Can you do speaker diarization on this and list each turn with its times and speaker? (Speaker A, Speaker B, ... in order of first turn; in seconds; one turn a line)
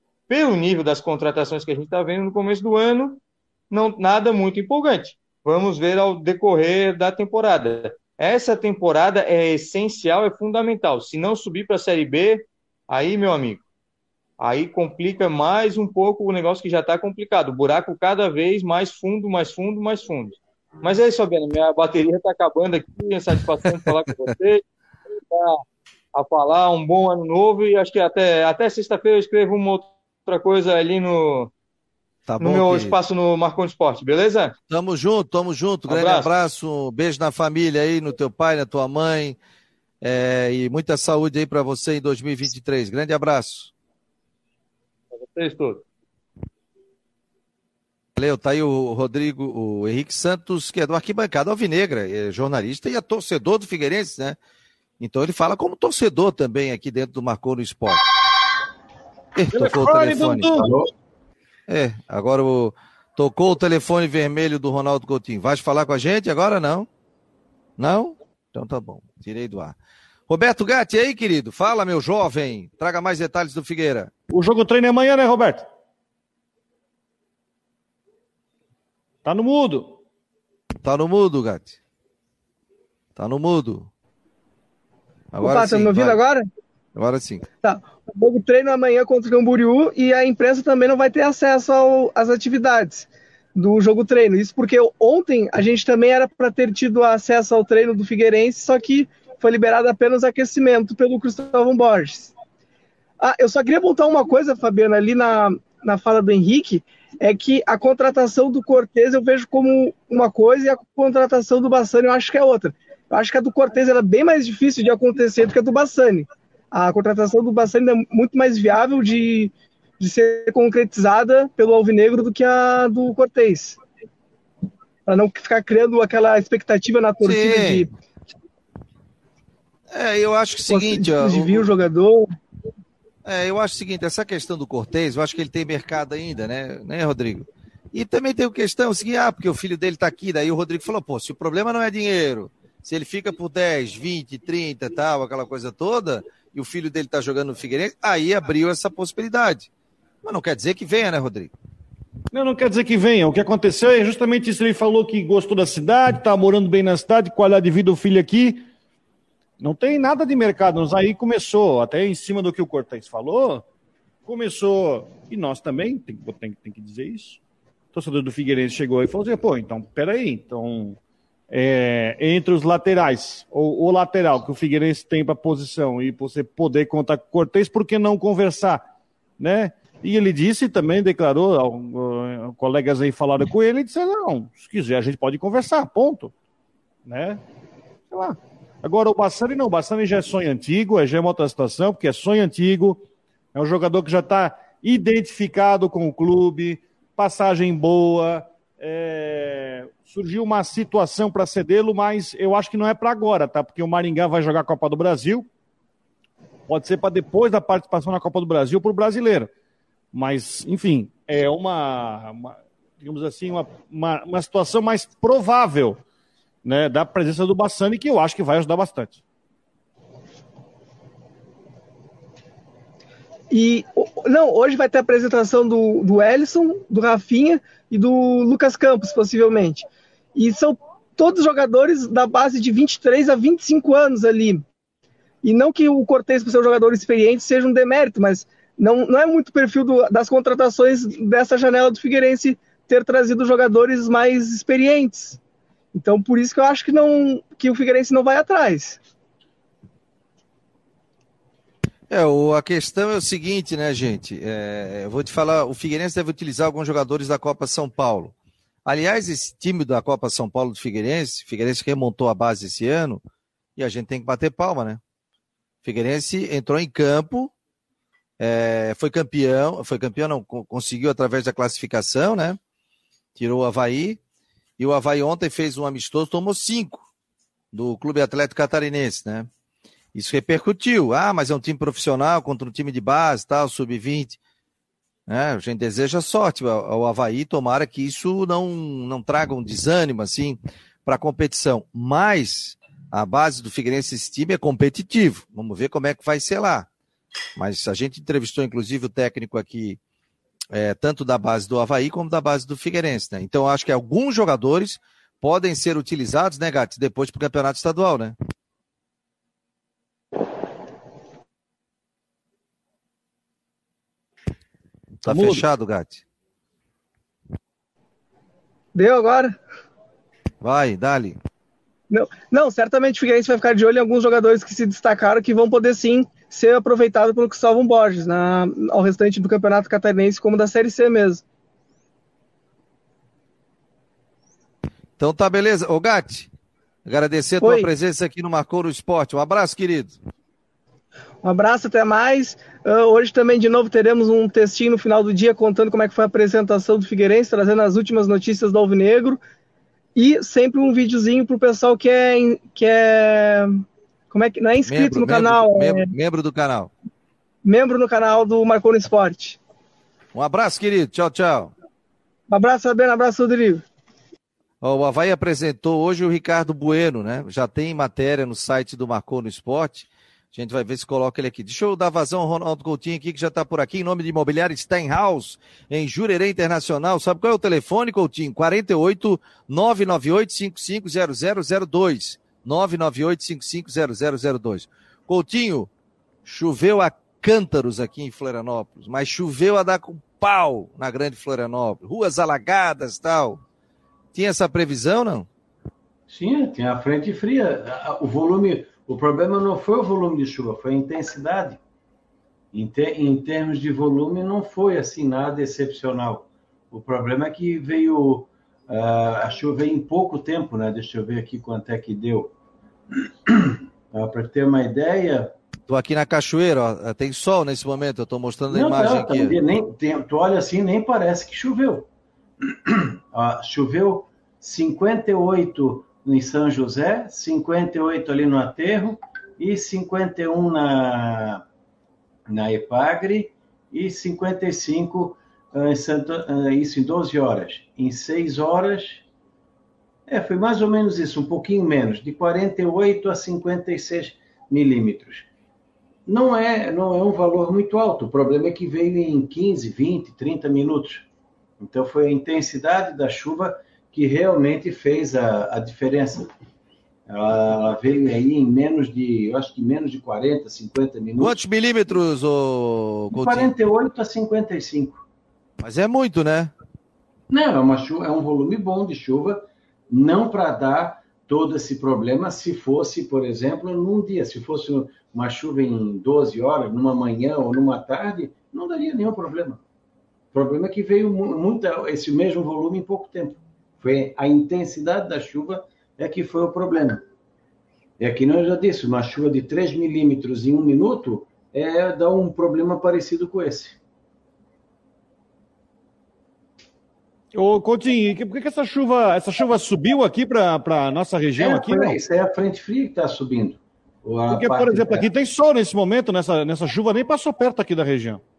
Speaker A: 0.3-13.6
Speaker A: 14.4-24.6
Speaker A: 25.3-25.6
Speaker A: 26.1-31.5
Speaker B: 32.3-32.9
Speaker A: 32.4-34.5
Speaker B: 34.7-39.4
Speaker A: 35.9-36.3
Speaker B: 40.0-43.7
Speaker A: 45.1-45.8
Speaker B: 48.1-54.4
Speaker B: 55.0-58.0
Speaker B: 59.4-60.5
Speaker C: 59.5-60.7
Speaker D: 60.5-60.9
Speaker B: 61.7-66.9
Speaker B: 67.8-69.8
Speaker B: 70.3-74.1
Speaker C: 74.3-75.7
Speaker C: 79.2-80.0
Speaker B: 80.8-81.8
Speaker B: 83.2-83.9
Speaker B: 85.3-86.2
Speaker E: 85.4-86.4
Speaker B: 86.9-87.5
Speaker E: 87.6-102.3
Speaker E: 103.2-123.8
Speaker E: 125.1-127.9
Speaker B: 127.2-127.8
Speaker B: 129.9-131.7
Speaker E: 130.7-132.2
Speaker B: 133.2-149.7
Speaker B: 150.2-151.5
Speaker C: 152.3-158.7
Speaker C: 159.6-163.6
Speaker C: 164.2-167.4
Speaker C: 167.9-171.0
Speaker C: 171.5-178.8
Speaker C: 179.4-186.3
Speaker C: 187.1-187.4
Speaker C: 188.1-193.0
Speaker C: 193.5-205.5
Speaker C: 206.7-209.5
Speaker C: 210.1-216.0
Speaker C: 216.6-219.2
Speaker E: 223.5-234.6
Speaker E: 235.4-245.4
Speaker E: 245.9-249.0
Speaker B: 252.1-258.3
Speaker B: 258.8-263.2
Speaker B: 263.8-265.0
Speaker B: 265.8-267.5
Speaker B: 268.4-272.6
Speaker B: 273.4-274.2
Speaker B: 274.8-277.1
Speaker B: 277.7-279.5
Speaker B: 280.1-284.4
Speaker B: 285.3-296.9
Speaker B: 297.6-300.0
Speaker B: 300.7-308.3
Speaker C: 315.2-315.6
Speaker B: 315.2-316.2
Speaker E: 318.9-319.6
Speaker B: 320.6-321.4
Speaker E: 322.1-331.4
Speaker B: 335.2-336.5
Speaker B: 337.1-340.2
Speaker E: 337.6-337.9
Speaker E: 341.4-349.4
Speaker E: 350.1-356.1
Speaker B: 354.8-356.9
Speaker E: 357.6-359.6
Speaker B: 360.3-361.7
Speaker E: 362.5-363.8
Speaker B: 364.8-385.9
Speaker B: 386.4-393.6
Speaker B: 394.3-395.5
Speaker D: 396.3-401.8
Speaker D: 402.7-412.5
Speaker D: 413.5-415.5
Speaker B: 415.9-419.6
Speaker D: 418.7-422.1
Speaker D: 422.6-431.6
Speaker D: 432.5-439.2
Speaker D: 440.3-445.5
Speaker D: 446.2-451.3
Speaker D: 451.8-456.5
Speaker D: 457.3-461.6
Speaker B: 461.4-463.7
Speaker D: 463.3-465.2
Speaker B: 465.8-466.7
Speaker D: 467.5-479.8
Speaker D: 480.5-487.2
Speaker D: 488.2-494.0
Speaker C: 497.5-502.2
Speaker D: 501.6-505.3
Speaker C: 504.5-508.4